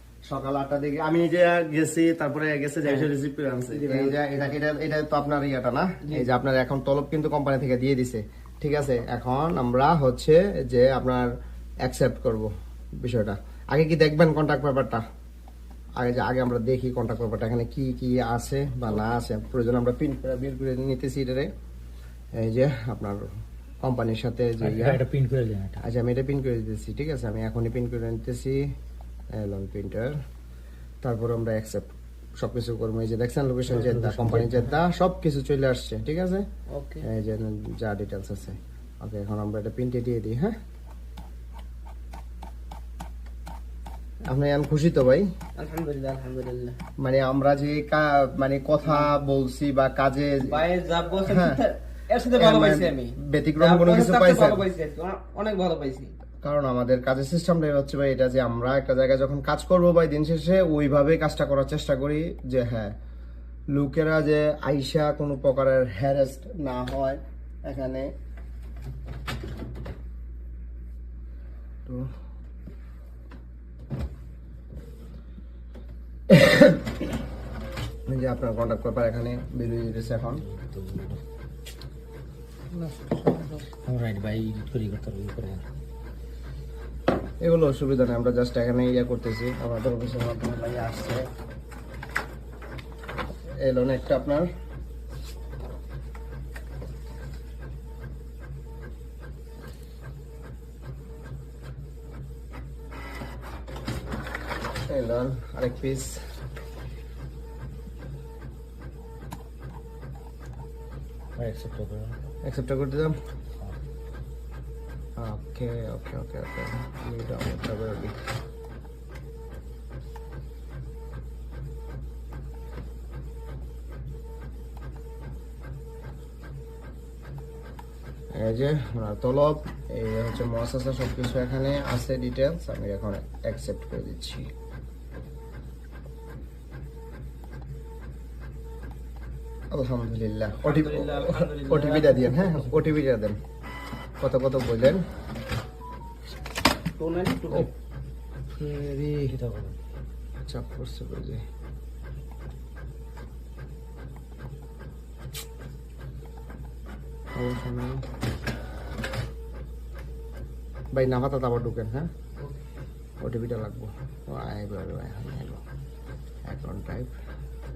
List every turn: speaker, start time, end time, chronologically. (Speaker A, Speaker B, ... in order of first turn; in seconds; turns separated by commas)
Speaker A: 0.3-11.3, Speaker B: 3.7-4.5, Speaker A: 11.8-12.5, Speaker A: 13.0-15.0, Speaker A: 16.0-21.5, Speaker A: 22.4-23.3, Speaker A: 23.8-25.0, Speaker C: 24.6-25.8, Speaker A: 25.8-28.6, Speaker A: 29.4-30.1, Speaker A: 31.0-31.9, Speaker A: 32.4-36.4, Speaker C: 33.7-34.8, Speaker B: 36.7-37.1, Speaker A: 37.0-40.5, Speaker A: 44.2-45.3, Speaker B: 45.5-46.8, Speaker A: 47.0-50.6, Speaker B: 48.8-49.1, Speaker B: 50.5-56.1, Speaker A: 51.2-51.6, Speaker A: 52.3-54.6, Speaker A: 56.4-62.9, Speaker A: 63.7-68.1, Speaker A: 76.3-76.9, Speaker A: 78.1-80.4, Speaker C: 80.3-81.2, Speaker A: 82.7-83.6, Speaker C: 83.8-85.6, Speaker A: 87.4-91.2, Speaker A: 93.6-94.5, Speaker A: 104.9-106.2, Speaker C: 111.4-112.2, Speaker A: 112.4-113.1, Speaker A: 115.2-118.1, Speaker A: 128.3-134.5, Speaker A: 139.7-143.4, Speaker B: 140.6-142.7, Speaker A: 144.2-145.0, Speaker B: 147.0-147.7, Speaker A: 148.5-149.3, Speaker C: 149.3-149.8, Speaker A: 150.5-151.4, Speaker A: 157.3-158.0, Speaker A: 160.9-162.1, Speaker A: 163.2-165.6, Speaker A: 166.4-167.1